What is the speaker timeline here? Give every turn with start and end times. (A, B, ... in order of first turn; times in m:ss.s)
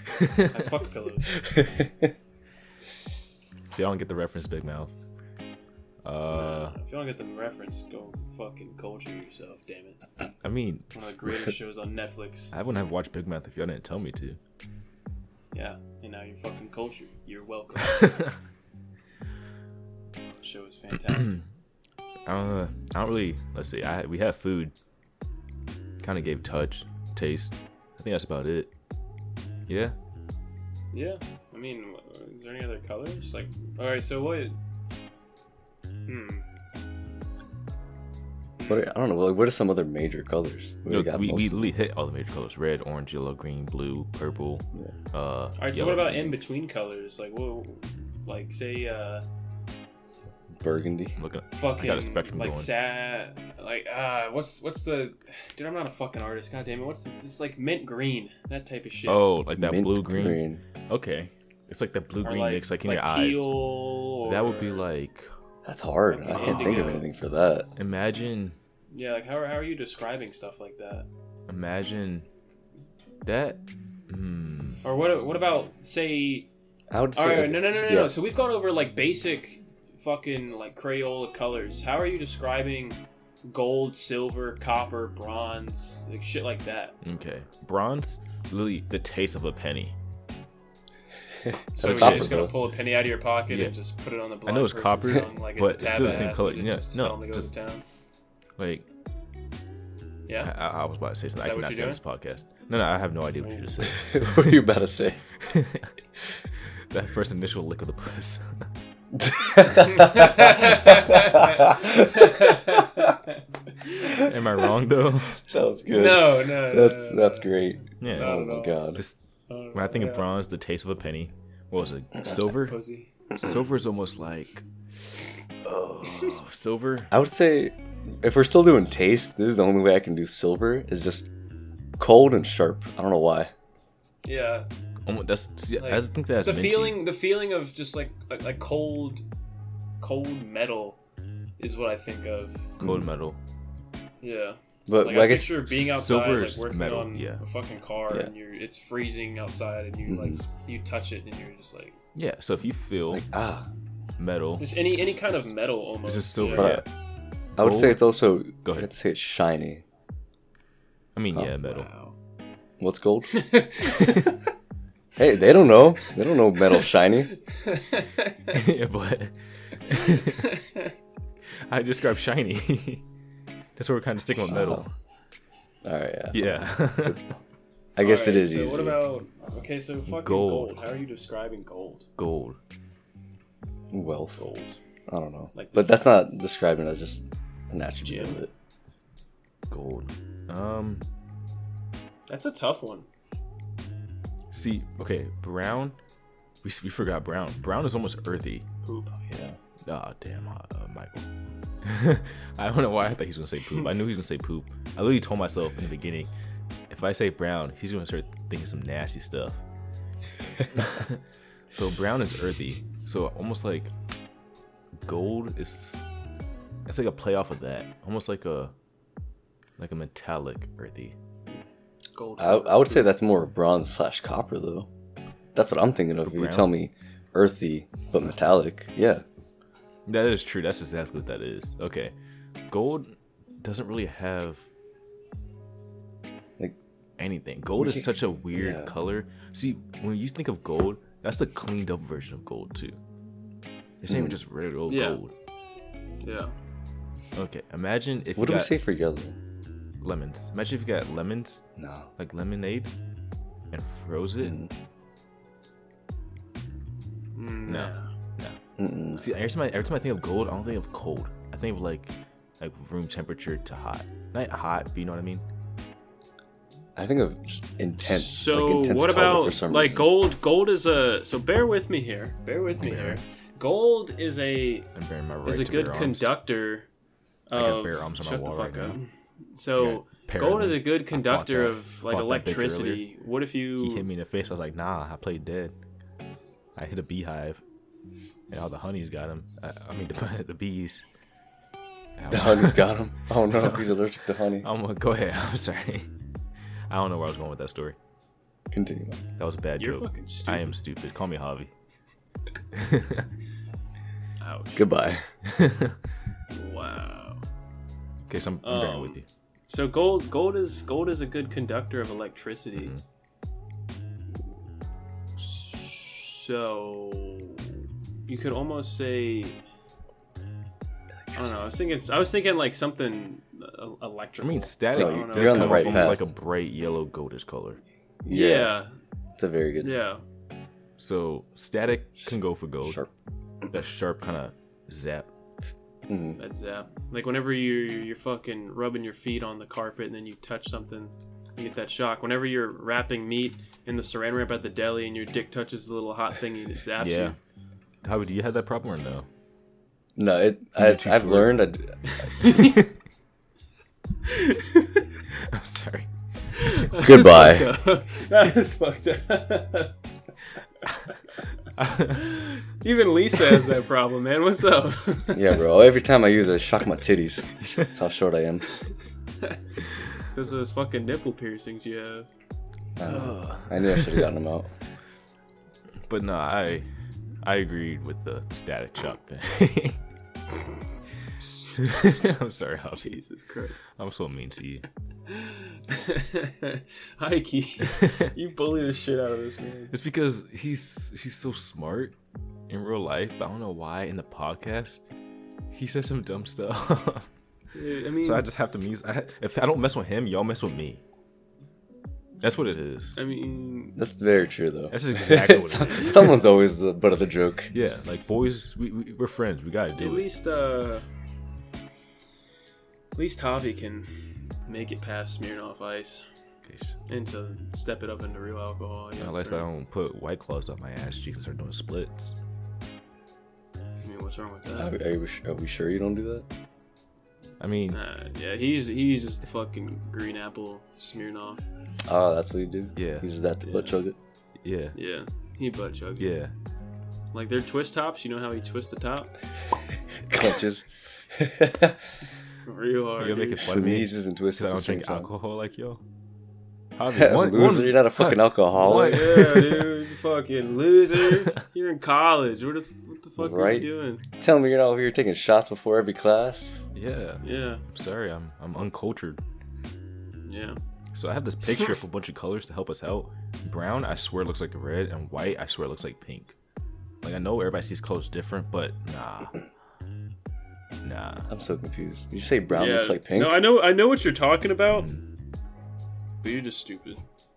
0:00.2-0:00.5 A
0:00.5-0:01.4 B
0:01.3-0:02.1 C
0:03.7-0:04.9 A
0:06.0-0:06.7 A
0:06.3-0:10.0 B
0:10.4-0:10.9 A
0:10.9-0:12.5 B
0:12.5-0:14.4 A
0:15.5-0:18.3 B
0:17.9-0:18.3 A
0:20.4-0:21.4 B
0:22.2-0:24.7 A
0:26.0-0:28.7 A
0:29.7-0:29.9 A
0:30.9-0:34.6 B
0:36.1-0:36.4 B
0:38.6-0:38.9 B
0:38.7-0:41.7 C
0:40.9-0:46.3 A
0:45.6-0:49.2 B
0:50.5-0:51.2 C
0:51.2-0:52.7 A
0:51.5-0:59.3 B
0:59.0-1:03.5 A
0:59.6-1:00.6 C
1:02.2-1:04.8 B
1:04.2-1:05.3 A
1:05.6-1:07.7 C
1:06.1-1:07.1 B
1:06.3-1:06.9 A
1:07.8-1:08.6 A
1:08.9-1:11.1 B
1:11.5-1:12.3 A
1:13.2-1:14.8 A
1:14.8-1:16.5 B
1:16.9-1:18.1 C
1:17.1-1:27.0 B
1:27.0-1:30.0 A
1:31.4-1:32.6 C
1:31.8-1:37.8 B
1:31.8-1:32.5 A
1:34.4-1:37.5 A
1:38.6-1:38.8 A
1:40.3-1:40.5 B
1:40.4-1:44.6 A
1:41.4-1:42.0 B
1:43.9-1:45.2 C
1:45.4-1:45.9 A
1:46.9-1:48.6 A
1:49.1-1:53.1 C
1:50.0-1:53.3 B
1:54.1-1:55.4 A
1:55.4-1:59.0 C
1:55.9-2:00.3 B
1:58.0-1:58.4 A
1:59.7-2:02.8 A
2:02.5-2:03.1 B
2:03.3-2:04.6 A
2:05.6-2:07.1 A
2:07.1-2:11.3 C
2:12.0-2:13.5 C
2:14.2-2:14.7 B
2:15.0-2:17.0 A
2:15.8-2:19.2 B
2:20.0-2:21.0 B
2:21.6-2:22.7 B
2:22.8-2:23.1 C
2:22.8-2:23.4 A
2:24.2-2:32.0 B
2:24.9-2:25.6 C
2:25.8-2:27.4 A
2:30.0-2:30.4 C
2:32.1-2:33.2 A
2:33.1-2:33.7 C
2:34.2-2:34.7 A
2:34.6-2:36.8 B
2:36.0-2:36.8 A
2:36.5-2:36.8 C
2:37.6-2:39.8 C
2:37.6-2:38.1 A
2:38.6-2:38.9 A
2:41.1-2:41.9 A
2:41.6-2:42.1 B
2:42.8-2:43.4 C
2:43.3-2:44.4 B
2:45.2-2:47.3 C
2:47.5-2:48.5 B
2:48.5-2:50.5 A
2:49.9-2:50.9 B
2:51.6-2:53.0 A
2:53.8-2:54.9 A
2:54.5-2:54.8 C
2:55.8-2:57.2 C
2:56.3-2:57.3 A
2:58.0-2:59.0 C
2:58.0-3:02.1 B
3:00.1-3:00.8 A
3:02.2-3:02.6 A
3:03.9-3:04.5 C
3:04.4-3:04.8 B
3:05.1-3:08.5 C
3:05.5-3:06.0 B
3:08.0-3:08.4 B
3:09.7-3:11.0 A
3:12.3-3:13.0 B
3:14.5-3:16.0 A
3:16.6-3:18.6 A
3:18.8-3:19.2 B
3:19.3-3:19.6 C
3:19.8-3:21.3 A
3:21.8-3:26.3 A
3:26.9-3:29.6 A
3:30.7-3:33.9 A
3:35.0-3:36.0 A
3:36.9-3:38.7 A
3:39.8-3:41.2 A
3:42.1-3:43.1 B
3:42.4-3:44.9 C
3:45.5-3:49.2 C
3:46.2-3:46.7 A
3:50.1-3:52.1 A
3:52.7-3:54.7 A
3:57.2-4:03.0 A
3:57.8-3:58.9 C
4:04.0-4:05.3 A
4:04.0-4:04.4 C
4:04.9-4:05.2 B
4:06.2-4:06.5 B
4:07.3-4:08.7 A
4:08.4-4:09.4 C
4:10.0-4:11.6 A
4:11.8-4:12.1 C
4:12.2-4:12.9 A
4:13.7-4:14.6 A
4:14.4-4:14.7 C
4:17.3-4:18.1 B
4:17.7-4:18.6 A
4:18.8-4:19.2 C
4:19.1-4:25.4 A
4:27.0-4:30.1 C
4:28.0-4:34.9 B
4:32.8-4:33.2 A
4:34.9-4:36.3 A
4:35.4-4:36.9 B
4:37.5-4:44.1 B
4:37.5-4:39.0 A
4:39.8-4:43.0 A
4:43.8-4:45.7 A
4:46.8-4:47.6 A
4:48.5-4:51.0 A
4:52.2-4:52.9 A
4:52.3-4:54.7 C
4:53.5-4:53.8 A
4:54.6-4:56.1 A
4:56.9-4:58.0 A
4:58.7-4:59.2 C
4:59.4-5:01.7 A
4:59.8-5:00.7 B
5:02.7-5:03.3 A
5:04.4-5:04.9 B
5:04.7-5:05.3 C
5:05.4-5:06.0 A
5:06.5-5:07.4 B
5:08.3-5:09.2 A
5:08.6-5:13.0 B
5:15.4-5:17.7 B
5:18.3-5:19.6 B
5:21.3-5:21.6 C
5:21.3-5:26.2 B
5:24.4-5:27.8 A
5:24.9-5:26.2 C
5:28.2-5:28.7 C
5:28.3-5:28.9 B
5:29.4-5:29.9 C
5:29.8-5:30.2 B
5:31.0-5:33.0 A
5:32.2-5:33.1 C
5:33.7-5:35.3 A
5:36.1-5:36.4 C
5:36.4-5:47.3 B
5:47.0-5:47.4 A
5:48.0-5:49.3 A
5:50.2-5:52.0 C
5:50.8-5:51.6 A
5:52.0-5:52.8 B
5:52.5-5:52.8 A
5:54.2-5:55.0 B
5:55.3-5:56.1 A
5:56.6-5:59.9 B
5:57.0-5:57.7 C
6:01.8-6:02.3 A
6:02.1-6:05.6 B
6:05.3-6:08.7 C
6:10.1-6:12.3 B
6:13.0-6:14.7 C
6:13.0-6:14.2 A
6:16.1-6:16.9 A
6:17.4-6:20.0 A
6:21.7-6:23.2 A
6:23.0-6:23.9 B
6:24.0-6:24.8 A
6:25.3-6:29.9 B
6:27.9-6:28.3 A
6:29.9-6:32.1 A
6:32.7-6:35.0 A
6:35.7-6:37.3 A
6:37.7-6:38.5 B
6:38.2-6:41.0 A
6:42.4-6:43.2 A
6:43.2-6:44.0 B
6:44.0-6:47.7 C
6:44.9-6:46.3 A
6:47.7-6:50.3 A
6:50.0-6:51.0 B
6:53.1-6:54.1 B
6:54.6-6:56.2 B
6:56.7-6:57.0 A
6:57.1-6:59.6 B
6:59.2-7:02.4 A
7:04.0-7:04.9 B
7:04.7-7:06.5 C
7:07.6-7:08.0 A
7:07.9-7:11.6 B
7:12.0-7:14.2 C
7:12.9-7:13.3 A
7:13.6-7:14.0 B
7:14.6-7:15.0 A
7:14.9-7:16.3 B
7:16.2-7:16.5 A
7:17.3-7:19.3 B
7:20.3-7:22.0 C
7:22.6-7:23.8 B
7:23.2-7:26.0 A
7:23.6-7:25.3 C
7:27.0-7:29.9 A
7:27.1-7:29.4 C
7:28.8-7:34.2 B
7:33.4-7:36.8 C
7:36.9-7:39.4 A
7:37.4-7:37.8 B
7:40.4-7:40.8 B
7:41.1-7:46.5 A
7:47.2-7:49.6 A
7:51.0-7:51.5 A
7:51.5-7:53.7 C
7:52.7-7:55.1 B
7:54.9-7:55.2 A
7:56.4-7:57.2 B